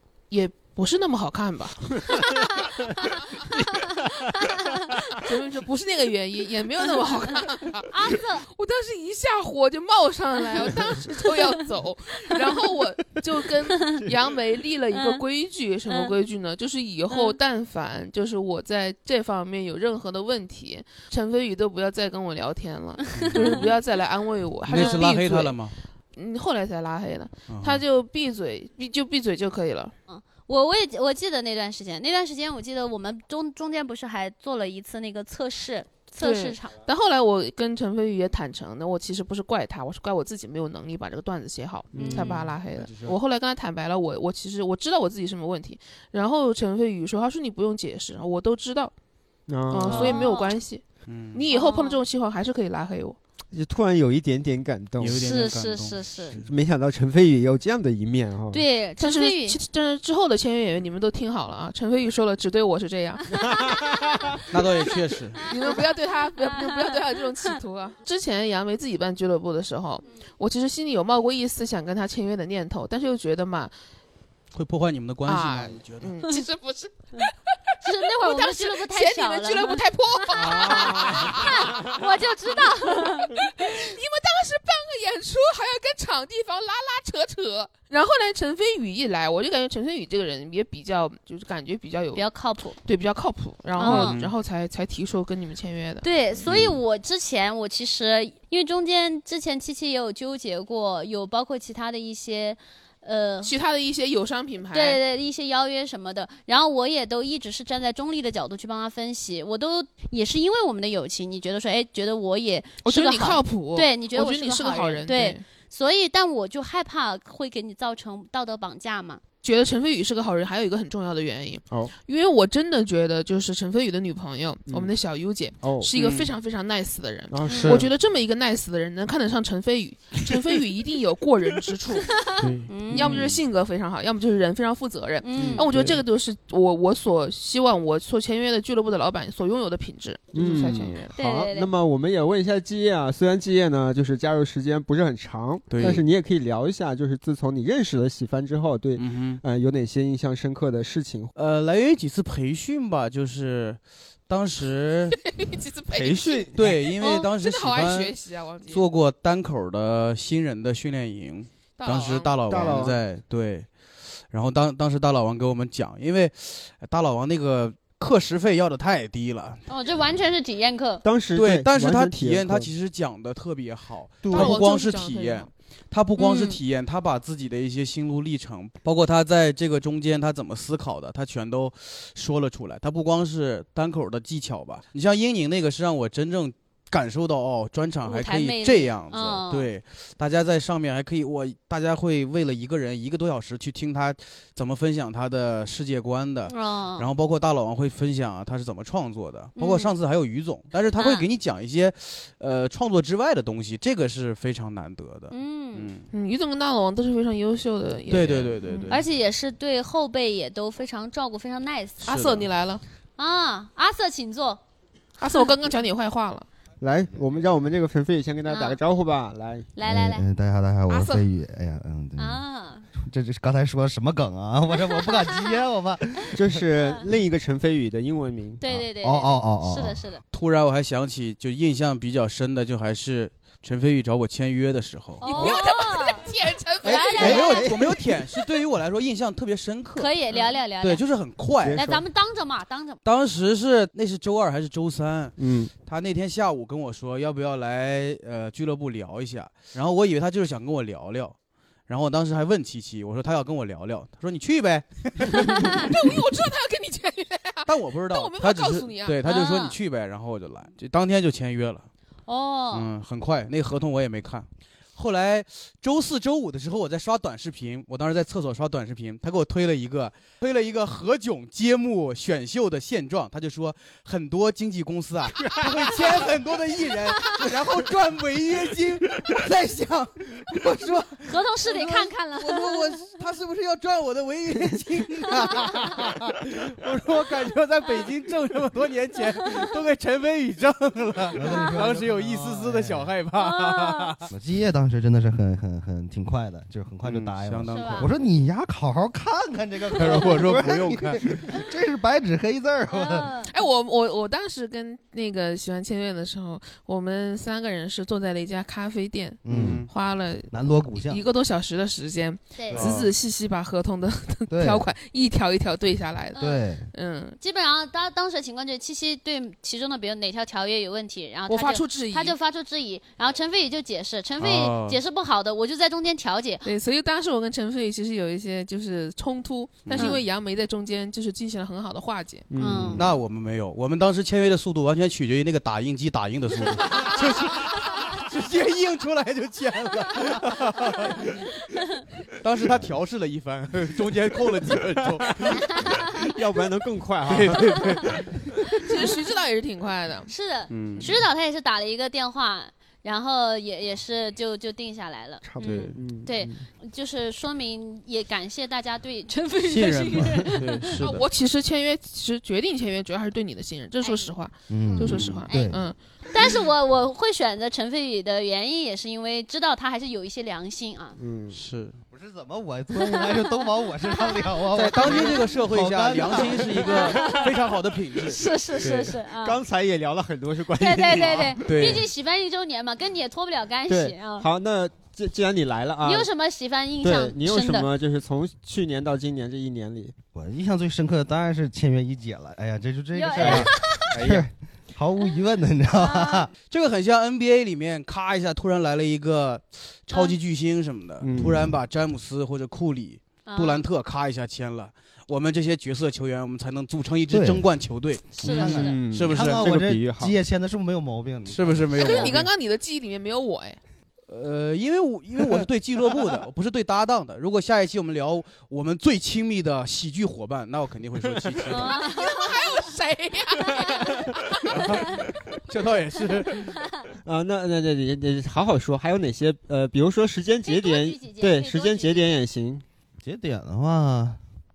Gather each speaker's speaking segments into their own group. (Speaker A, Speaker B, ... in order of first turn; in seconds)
Speaker A: 0.3-3.5, 5.1-25.6, 26.1-29.9, 36.2-48.9, 49.7-53.2, 59.0-63.4, 65.4-73.7, 75.2-92.2, 92.8-96.1, 103.4-105.0, 112.8-115.4, 119.4-132.2, 132.9-141.1, 155.2-158.8, 161.8-162.8, 174.3-175.5, 206.1-208.9, 212.0-212.8, 215.2-216.5, 220.9-221.2, 235.2-237.8, 255.7-259.2, 303.5-316.4, 316.9-317.4, 321.5-322.4, 326.6-332.5, 348.9-350.3, 361.0-365.9, 412.0-413.8, 421.8-425.0
Speaker B: 2.2-2.8, 3.8-4.9, 7.9-8.4, 14.9-15.2, 17.1-17.3, 23.2-23.6, 30.1-36.7, 42.0-42.4, 49.9-50.5, 51.5-52.0, 55.2-56.4, 58.5-59.6, 63.4-63.8, 77.8-83.3, 92.1-92.8, 93.8-94.2, 96.0-103.5, 104.7-119.2, 132.7-133.1, 135.2-135.6, 141.1-141.7, 169.7-171.0, 176.2-176.6, 188.0-189.7, 196.5-197.1, 199.6-199.9, 201.0-201.2, 205.3-205.9, 208.9-212.1, 213.2-214.6, 218.5-218.8, 219.8-220.2, 222.2-222.8, 224.8-225.6, 228.6-230.2, 235.2-236.2, 236.8-237.7, 239.9-241.0, 241.7-243.0, 259.2-259.8, 262.3-262.9, 281.2-282.9, 291.5-291.8, 293.4-294.1, 297.7-298.1, 302.9-303.5, 312.6-312.9, 316.4-316.6, 317.4-326.7, 329.9-330.2, 332.6-333.0, 345.7-346.1, 350.3-360.9, 364.0-364.3, 364.9-365.8, 366.3-371.2, 372.9-374.5, 376.9-377.5, 378.3-379.6, 380.8-384.5, 386.0-387.9, 393.1-394.1, 395.9-396.5, 400.1-400.3, 403.4-403.8, 408.4-409.0, 412.0-412.3, 421.7-422.6, 430.6-432.4
Speaker C: 23.1-23.6, 24.7-25.8, 27.5-27.8, 42.8-43.1, 51.0-51.4, 55.0-56.5, 64.5-65.5, 74.5-76.2, 93.8-94.3, 126.0-126.3, 127.5-127.8, 132.4-133.4, 145.7-146.0, 149.0-149.4, 151.3-155.2, 156.5-158.1, 158.7-163.7, 164.3-169.6, 171.3-206.1, 208.1-209.0, 212.0-212.5, 230.3-235.5, 237.2-240.1, 240.8-241.8, 243.0-251.3, 251.9-256.0, 257.6-261.9, 262.7-294.2, 297.0-298.1, 299.9-301.2, 309.5-309.9, 312.7-313.1, 324.4-325.0, 329.8-330.2, 332.9-341.5, 342.3-345.9, 347.2-348.5, 350.7-351.2, 355.6-356.0, 359.6-361.2, 365.0-365.3, 371.5-372.0, 374.7-379.1, 381.6-382.1, 396.7-409.6, 411.5-412.5, 414.3-422.0, 424.7-426.8
Speaker D: 41.9-42.4, 49.5-50.2, 53.5-55.2, 56.4-58.6, 63.4-64.2, 80.5-81.3, 124.7-124.9, 125.6-125.9, 127.3-127.9, 135.4-136.0, 140.3-151.3, 155.9-156.7, 162.5-163.0, 171.0-172.7, 174.2-174.6, 216.8-219.7, 226.3-228.6, 236.9-237.9, 241.6-242.0, 245.4-245.7, 332.5-333.1, 346.2-348.2, 355.4-356.6, 371.2-371.6, 379.2-381.6, 383.9-386.3, 387.0-390.1, 393.4-394.5, 401.2-401.7, 408.6-410.3, 427.2-432.8
Speaker E: 219.8-222.4, 223.0-226.4, 228.6-230.0, 291.3-293.1, 294.3-303.4, 309.4-309.9, 310.5-311.2, 314.5-314.9, 316.4-316.9, 364.7-365.8, 372.1-377.3, 390.3-396.5, 407.3-407.7, 408.4-411.9, 433.2-434.4